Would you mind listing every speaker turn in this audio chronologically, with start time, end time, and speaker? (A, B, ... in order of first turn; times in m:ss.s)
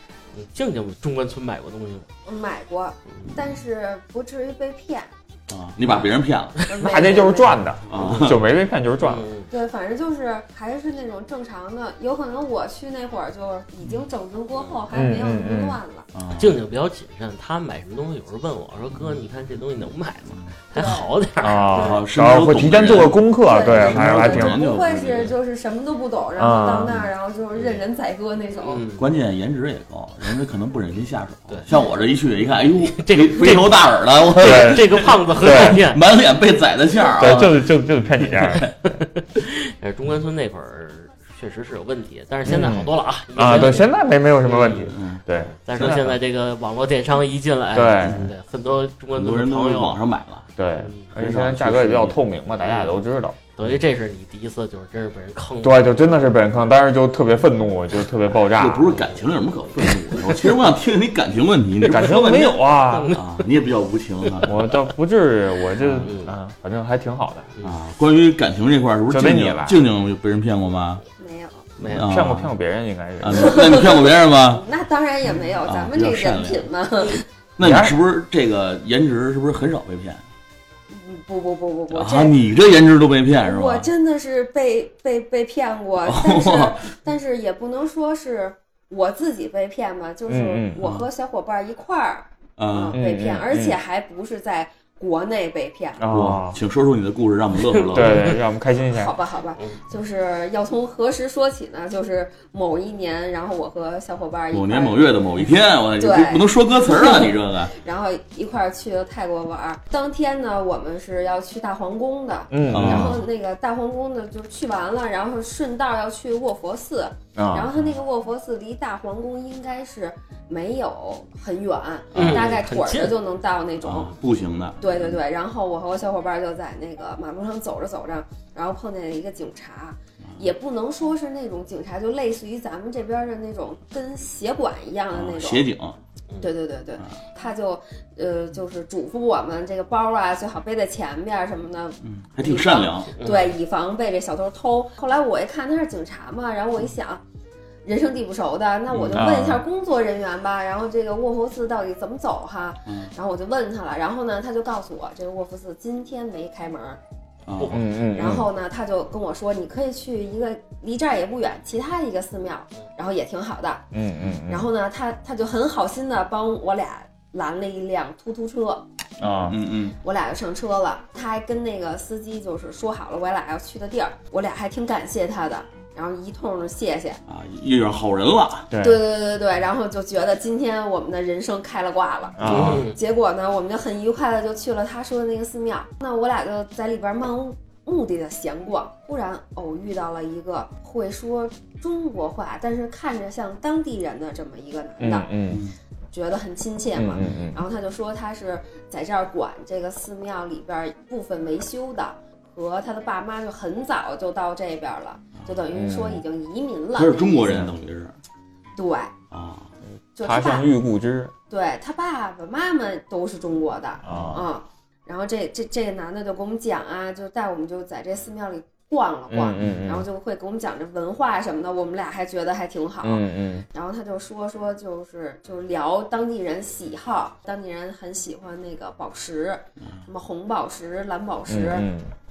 0:00.3-0:02.1 A
0:02.2-0:05.1 B
0:05.5-0:06.6 C
0:06.7-0:07.6 B
0:06.8-0:09.3 D
0:07.9-0:08.4 C
0:07.9-0:08.4 A
0:09.0-0:09.5 A
0:09.5-0:16.1 B
0:14.6-0:14.8 A
0:14.9-0:15.8 D
0:16.1-0:16.6 C
0:16.4-0:22.0 A
0:18.9-0:19.3 C
0:20.7-0:21.1 B
0:21.4-0:24.6 D
0:21.8-0:22.0 B
0:21.8-0:25.3 C
0:23.4-0:28.8 B
0:26.4-0:27.0 D
0:26.7-0:27.1 C
0:28.6-0:29.1 A
0:29.0-0:38.7 C
0:32.4-0:36.0 A
0:34.4-0:35.8 D
0:37.1-0:38.7 D
0:38.5-0:45.0 A
0:42.4-0:46.0 D
0:44.9-0:45.2 C
0:45.6-0:50.0 A
0:45.8-0:46.2 C
0:47.7-0:48.3 D
0:48.0-0:48.3 C
0:49.1-0:50.5 C
0:50.6-0:53.4 D
0:50.8-0:51.1 A
0:51.2-0:52.2 C
0:52.6-0:53.0 A
0:53.6-0:56.5 A
0:55.6-0:59.0 D
0:58.5-1:02.6 C
0:58.9-0:59.2 A
0:59.8-1:00.5 A
1:01.9-1:03.1 D
1:02.8-1:03.4 A
1:03.1-1:04.6 C
1:04.2-1:04.6 A
1:04.4-1:07.5 D
1:05.8-1:06.1 C
1:06.0-1:06.3 A
1:07.6-1:11.0 C
1:09.1-1:09.8 D
1:11.2-1:11.6 B
1:11.8-1:12.1 A
1:11.8-1:12.5 C
1:11.9-1:13.8 D
1:13.2-1:14.6 C
1:13.3-1:17.2 B
1:15.6-1:16.7 C
1:17.6-1:20.2 C
1:17.6-1:18.0 D
1:20.9-1:22.3 B
1:21.9-1:23.9 C
1:23.4-1:36.0 B
1:26.0-1:26.9 C
1:30.3-1:31.1 D
1:32.6-1:33.0 C
1:32.9-1:33.8 D
1:36.0-1:36.6 D
1:36.1-1:38.3 C
1:37.8-1:38.3 A
1:37.9-1:39.2 D
1:38.8-1:45.1 B
1:44.5-1:47.7 C
1:46.0-2:04.1 B
1:52.5-1:53.2 D
1:52.7-1:53.2 C
1:57.4-1:57.7 D
2:02.1-2:02.5 C
2:02.2-2:03.2 A
2:03.8-2:05.2 C
2:04.8-2:15.7 B
2:15.1-2:16.0 C
2:16.4-2:27.2 B
2:22.0-2:23.2 C
2:23.2-2:23.6 A
2:27.8-2:37.0 B
2:28.9-2:29.2 C
2:29.1-2:29.6 D
2:32.9-2:33.1 C
2:37.5-2:38.3 C
2:37.7-2:38.5 D
2:38.0-2:43.9 B
2:43.9-2:44.7 D
2:44.5-2:48.8 B
2:49.2-2:49.6 D
2:49.3-2:50.0 C
2:50.0-2:57.2 B
2:57.3-2:58.7 C
2:58.7-2:59.0 D
2:58.8-3:15.3 B
3:02.4-3:02.9 D
3:02.4-3:03.0 A
3:15.0-3:15.7 D
3:15.5-3:15.8 C
3:16.1-3:27.6 B
3:17.0-3:17.6 D
3:17.2-3:17.4 C
3:25.7-3:26.2 D
3:27.0-3:28.2 C
3:28.8-3:29.1 B
3:29.3-3:29.7 C
3:30.2-3:30.7 B
3:30.2-3:31.3 D
3:31.5-3:51.9 B
3:34.0-3:34.4 D
3:34.1-3:34.4 C
3:39.3-3:40.1 D
3:39.6-3:39.8 C
3:43.0-3:43.7 D
3:51.5-3:52.1 D